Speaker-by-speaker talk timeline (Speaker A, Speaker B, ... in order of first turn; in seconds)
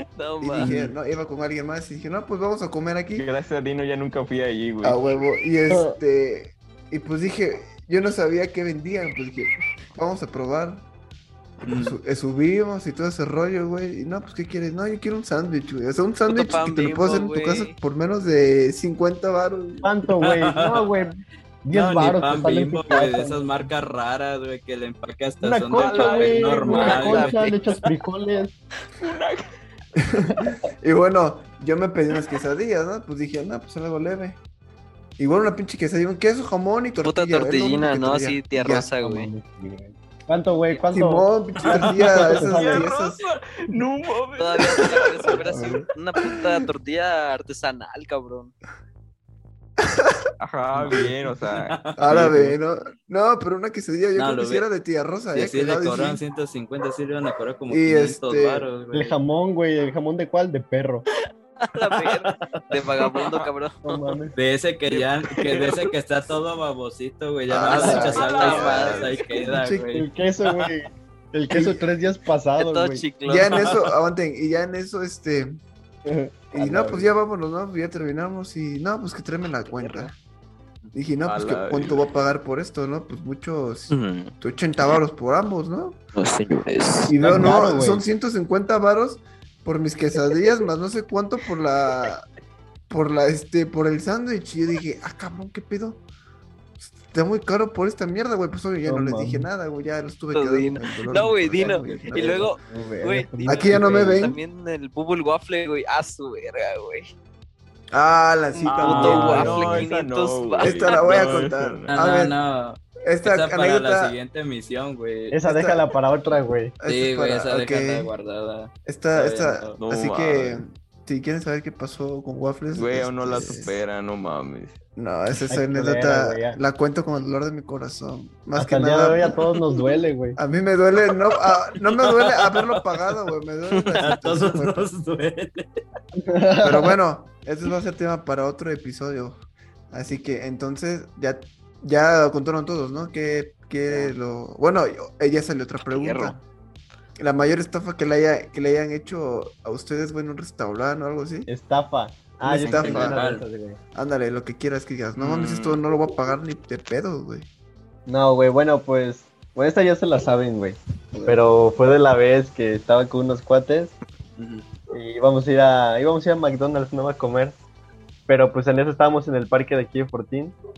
Speaker A: 0.1-0.7, 16.3-17.8, 26.7-27.6, 37.0-39.3, 44.4-48.5, 61.6-64.1, 67.7-69.3, 72.6-73.8, 79.7-80.1, 83.9-84.3, 86.2-87.5, 100.3-107.1, 108.6-111.2, 133.8-134.1, 145.9-146.4
Speaker B: 0.4-3.3, 4.8-10.9, 11.7-19.9, 30.0-34.4, 35.2-38.9, 40.9-43.2, 45.4-46.7, 49.8-50.2, 52.0-56.2, 57.7-58.7, 67.5-68.6, 69.3-70.0, 73.3-75.6, 76.5-80.1, 80.9-86.0, 87.1-92.3, 92.9-96.0, 96.8-102.6, 103.4-104.4, 107.9-109.9, 110.6-112.3, 113.0-114.2, 115.5-115.8, 116.8-118.1, 118.8-123.8, 125.0-129.4, 130.4-134.9, 136.6-139.4, 139.9-146.4, 147.2-151.5, 152.4-153.2, 153.9-157.5, 161.1-161.4
Speaker C: 0.6-0.9, 5.7-6.0, 19.8-23.4, 25.4-28.5, 39.0-42.9, 45.5-45.9, 58.9-61.1, 63.8-64.3, 69.9-73.0, 76.0-77.1, 87.2-88.0, 98.8-99.5, 101.6-104.2, 115.3-116.7, 125.5-126.6, 128.6-130.4, 136.2-136.9, 151.5-153.8, 158.1-163.9, 164.9-167.6, 168.3-170.6
Speaker D: 3.1-5.0, 25.8-27.0, 29.0-29.6, 42.4-45.4, 50.4-52.6, 63.1-63.5, 64.9-65.9, 67.7-69.2, 81.3-82.0, 108.6-111.9, 119.8-120.7, 122.7-124.8, 155.2-155.8
Speaker E: 11.7-12.0, 20.2-20.9, 21.7-27.4, 41.6-42.0, 51.5-52.3, 54.1-54.7, 55.3-59.1, 62.0-62.9, 64.3-70.1, 108.8-109.5, 111.9-115.4, 116.9-119.8, 131.9-133.1, 134.0-135.8, 152.6-153.4, 164.4-164.7